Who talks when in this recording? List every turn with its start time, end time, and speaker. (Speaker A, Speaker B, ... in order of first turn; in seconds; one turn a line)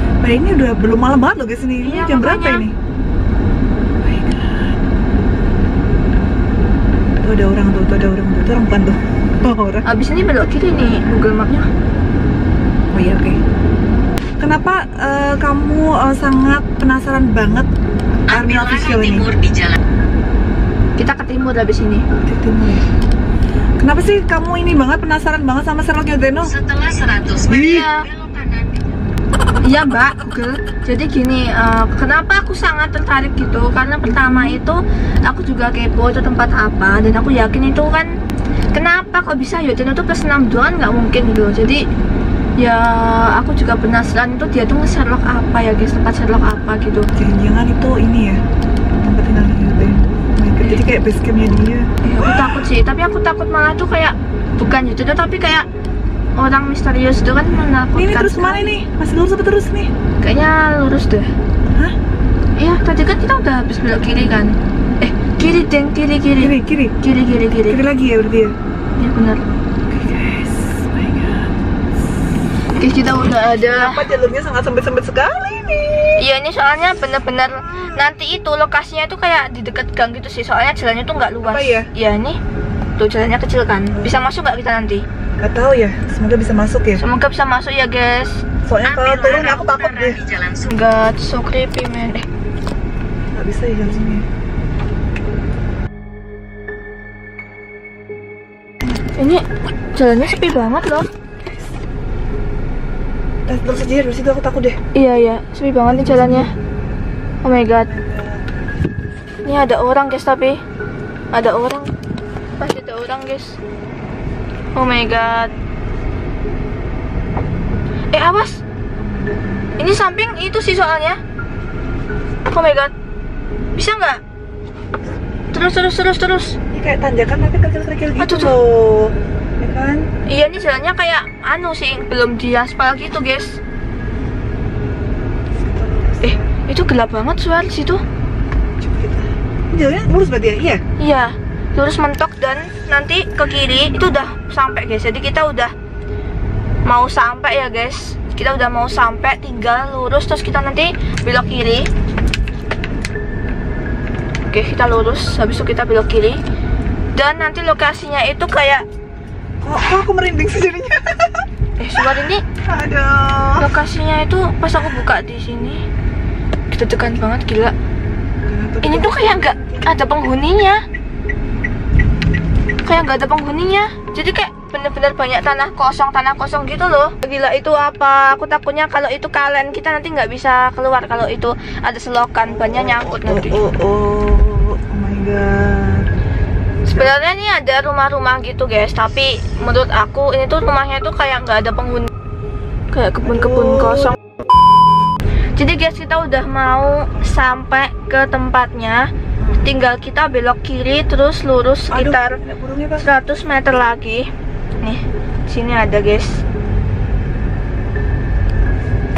Speaker A: 0.2-2.8
Speaker B: 1.8-2.7
Speaker A: 4.0-4.8
Speaker A: 7.2-9.9
Speaker B: 9.8-11.7
Speaker A: 12.9-13.4
Speaker A: 14.4-17.7
Speaker A: 18.3-19.3
Speaker C: 18.3-19.8
Speaker B: 20.9-22.1
Speaker A: 22.2-22.9
Speaker A: 23.8-26.6
Speaker C: 26.4-28.8
Speaker B: 27.5-28.1
Speaker A: 27.5-27.9
Speaker B: 29.6-38.2
Speaker A: 34.1-34.6
Speaker B: 38.7-41.9
Speaker B: 42.6-47.1
Speaker A: 47.1-48.4
Speaker A: 49.0-52.4
Speaker B: 52.0-55.7
Speaker B: 56.4-58.8
Speaker A: 58.0-59.9
Speaker B: 60.2-61.4
Speaker B: 62.6-67.8
Speaker A: 66.4-66.9
Speaker A: 67.7-68.6
Speaker B: 69.0-69.4
Speaker A: 69.9-71.5
Speaker B: 72.7-74.1
Speaker A: 73.5-76.3
Speaker B: 76.2-82.4
Speaker A: 77.6-78.0
Speaker A: 81.4-81.9
Speaker B: 83.0-85.0
Speaker A: 83.9-84.2
Speaker A: 85.4-87.0
Speaker B: 87.0-88.4
Speaker A: 88.6-90.2
Speaker C: 88.8-90.8
Speaker B: 90.6-92.2
Speaker A: 93.3-94.2
Speaker B: 99.2-101.1
Speaker A: 103.5-104.8
Speaker B: 104.9-106.5
Speaker A: 105.9-106.5
Speaker B: 107.4-107.9
Speaker A: 107.8-108.5
Speaker B: 109.4-110.6
Speaker B: 111.3-111.9
Speaker B: 112.6-113.6
Speaker B: 114.8-115.5
Speaker A: 115.2-115.6
Speaker B: 118.1-118.6
Speaker A: 119.0-120.0
Speaker B: 119.8-121.2
Speaker B: 122.5-122.9
Speaker B: 123.8-124.2
Speaker B: 125.5-126.6
Speaker A: 126.7-130.1
Speaker B: 128.2-128.6
Speaker B: 130.2-133.6
Speaker A: 135.6-136.5
Speaker B: 136.2-138.0
Speaker A: 138.8-140.8
Speaker B: 141.0-145.7
Speaker B: 146.9-151.9
Speaker B: 154.5-156.4
Speaker B: 157.1-158.9
Speaker A: 159.6-161.4
Speaker B: 161.8-162.4
Speaker A: 162.6-163.7
Speaker B: 163.6-165.8
Speaker B: 166.7-167.8
Speaker A: 168.4-170.0
Speaker B: 168.8-170.8
Speaker B: 172.8-183.6
Speaker A: 182.5-186.1
Speaker A: 186.9-187.1
Speaker B: 186.9-192.1
Speaker B: 192.9-194.2
Speaker A: 193.2-194.2
Speaker B: 195.6-202.4
Speaker A: 199.4-199.7
Speaker A: 201.9-203.1
Speaker B: 203.0-206.4